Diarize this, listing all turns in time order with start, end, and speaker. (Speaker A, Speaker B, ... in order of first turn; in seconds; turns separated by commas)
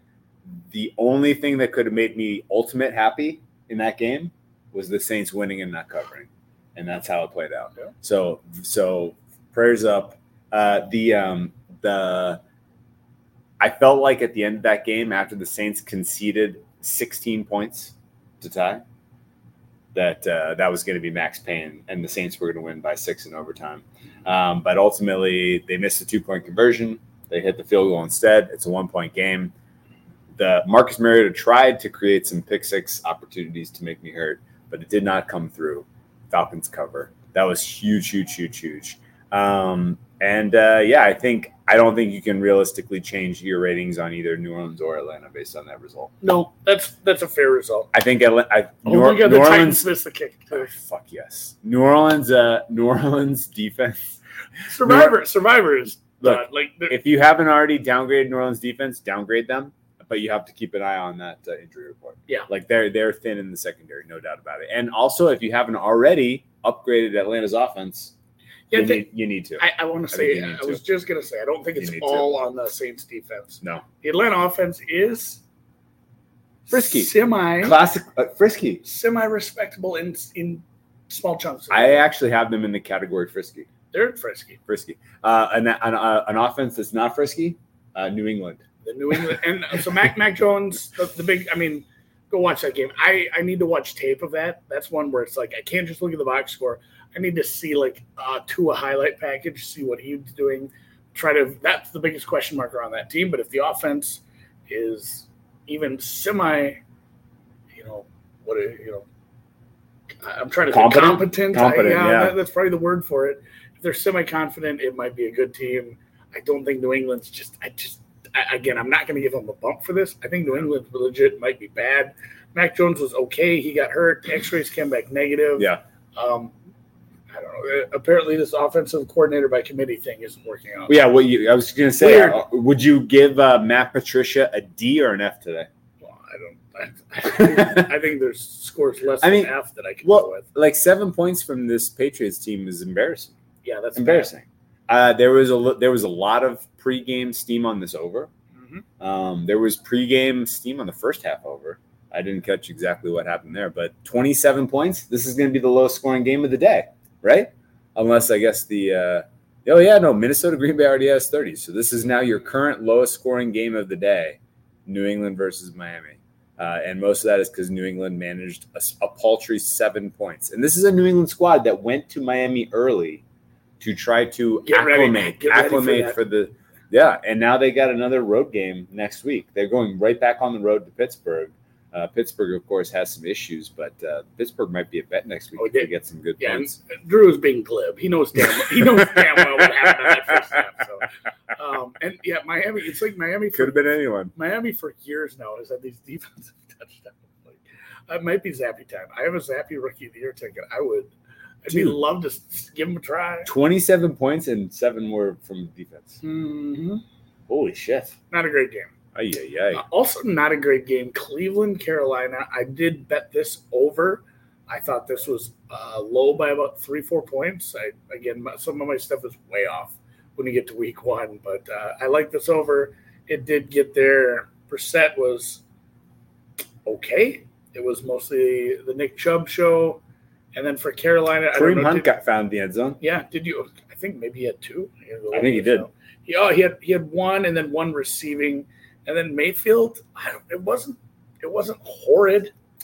Speaker A: 0.7-12.4, Speaker A: 13.6-18.8, Speaker A: 19.9-29.5, Speaker A: 30.4-46.1, Speaker B: 46.2-47.9, Speaker A: 47.9-49.9, Speaker B: 48.9-50.8, Speaker A: 50.5-54.2, Speaker B: 54.7-57.0, Speaker A: 54.8-55.2, Speaker A: 56.2-68.1, Speaker B: 68.7-69.1, Speaker A: 68.7-70.8, Speaker B: 69.6-75.4, Speaker A: 71.8-72.3, Speaker B: 76.7-77.8, Speaker A: 76.7-78.8, Speaker B: 78.8-82.0, Speaker A: 81.7-83.7, Speaker B: 83.9-84.6, Speaker A: 84.7-88.6, Speaker B: 88.8-106.8, Speaker B: 107.7-109.0, Speaker B: 110.2-126.5, Speaker A: 110.7-112.4, Speaker B: 127.3-130.9, Speaker A: 130.9-135.7, Speaker B: 132.0-132.4, Speaker B: 136.0-140.4, Speaker A: 137.3-137.9, Speaker A: 139.2-143.4, Speaker B: 143.6-144.3, Speaker A: 143.9-148.3, Speaker B: 148.6-148.8, Speaker A: 149.0-173.2, Speaker A: 173.8-186.8, Speaker B: 174.7-176.2, Speaker B: 185.6-193.8, Speaker A: 188.8-189.6, Speaker A: 193.5-194.3, Speaker B: 194.3-201.1, Speaker B: 201.7-203.5, Speaker A: 201.7-202.0, Speaker A: 203.4-206.2, Speaker B: 206.2-207.0, Speaker A: 207.5-208.2, Speaker B: 208.3-208.9, Speaker A: 209.2-209.8, Speaker B: 209.7-225.6, Speaker B: 226.8-230.0, Speaker B: 230.5-232.2, Speaker A: 231.6-233.0, Speaker B: 233.0-242.5, Speaker A: 235.3-235.9